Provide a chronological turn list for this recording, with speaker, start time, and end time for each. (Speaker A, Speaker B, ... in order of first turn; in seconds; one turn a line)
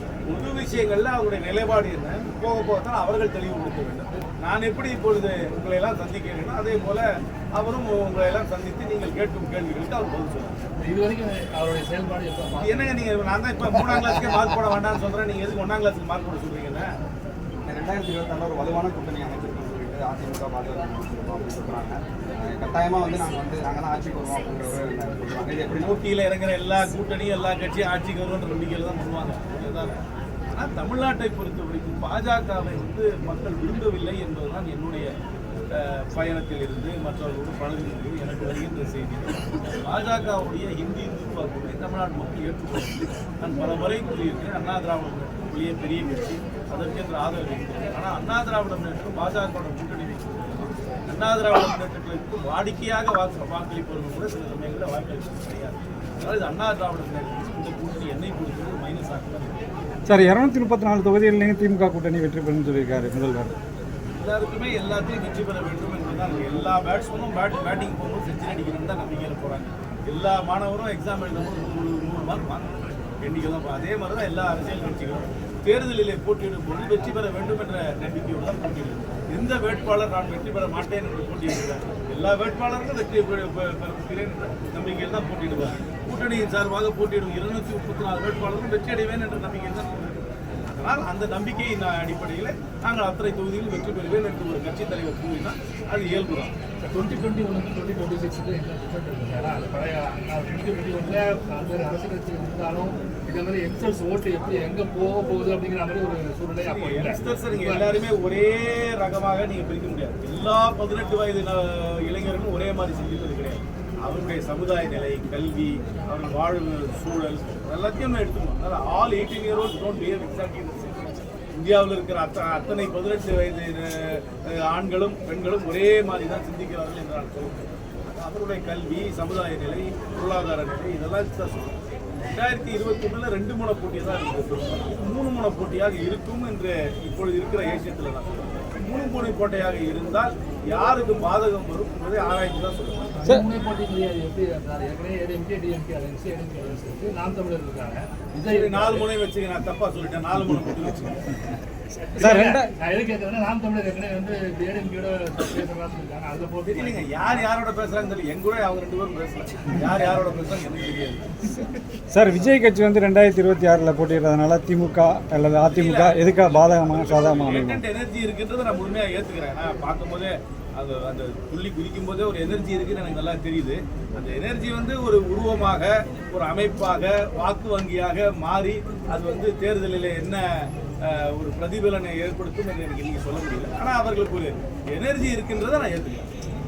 Speaker A: 0.3-10.6
Speaker B: 10.8-13.0
Speaker A: 12.6-16.9
Speaker C: 17.6-25.9
Speaker A: 25.7-35.1
Speaker A: 35.8-59.6
Speaker D: 60.1-63.5
Speaker A: 64.2-72.7
Speaker A: 73.2-96.5
Speaker B: 96.8-107.9
Speaker A: 106.6-131.8
Speaker A: 132.3-143.2
Speaker B: 143.2-149.1
Speaker A: 148.5-151.4
Speaker B: 152.0-157.4
Speaker D: 152.2-152.7
Speaker A: 156.7-161.3
Speaker D: 161.5-167.8
Speaker A: 165.7-180.4
Speaker A: 181.1-186.3